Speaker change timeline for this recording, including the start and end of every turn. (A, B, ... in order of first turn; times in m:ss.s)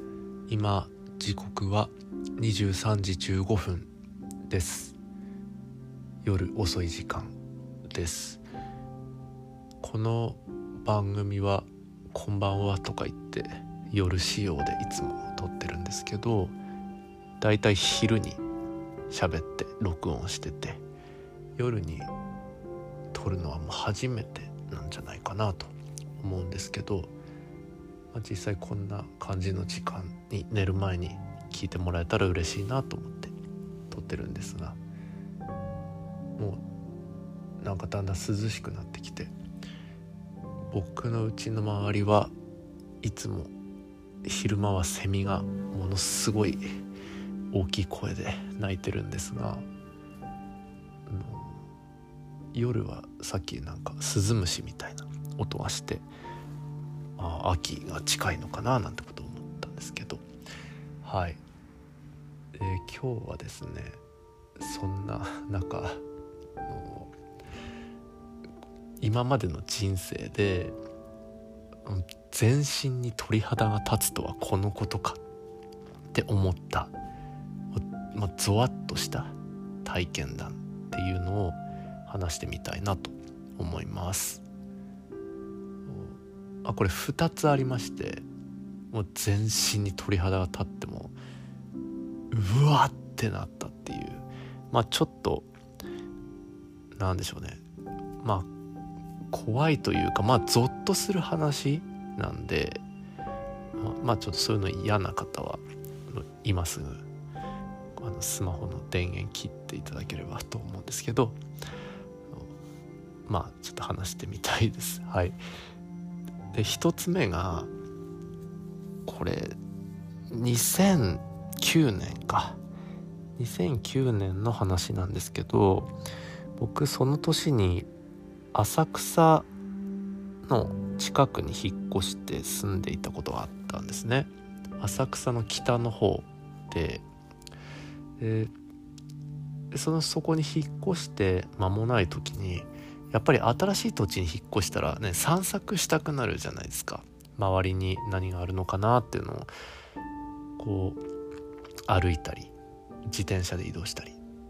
0:00.5-0:03.9 A
0:04.5-0:05.0 A
0:06.2-0:07.3 A
0:07.9-0:08.4 A
0:09.8-0:16.5 A
0:17.4-0:18.4 A
0:19.1-0:20.8 A
0:21.6-0:22.1 A
0:23.1-0:27.1 A
0:28.1-0:33.3 A
0:33.9-0:34.8 A
0:36.4-0:36.6 A
0:37.6-0:39.3 A
0:40.7-0:42.3 A
0:43.0-0:43.5 A
0:44.2-0:46.7 A
0:47.5-0:49.6 A
0:51.1-0:51.6 A
0:52.5-0:56.0 A
0:57.2-1:00.2 A
1:01.0-1:01.4 A
1:02.6-1:04.0 A
1:04.6-1:06.0 A
1:06.6-1:07.1 A
1:09.0-1:10.8 A
1:11.8-1:15.2 A
1:16.1-1:16.9 A
1:17.7-1:24.4 A
1:25.8-1:28.2 A
1:28.9-1:31.2 A
1:32.3-1:35.5 A
1:37.0-1:37.6 A
1:38.2-1:38.5 A
1:39.3-1:42.8 A
1:43.8-1:47.0 A
1:48.0-1:51.4 A
1:53.3-1:55.4 A
1:56.5-1:57.7 A
1:59.0-1:59.5 A
2:00.3-2:02.6 A
2:03.4-2:05.9 A
2:06.6-2:07.9 A
2:08.5-2:09.5 A
2:10.5-2:17.0 A
2:18.2-2:18.5 A
2:19.7-2:29.5 A
2:30.6-2:31.0 A
2:31.9-2:32.5 A
2:33.1-2:34.2 A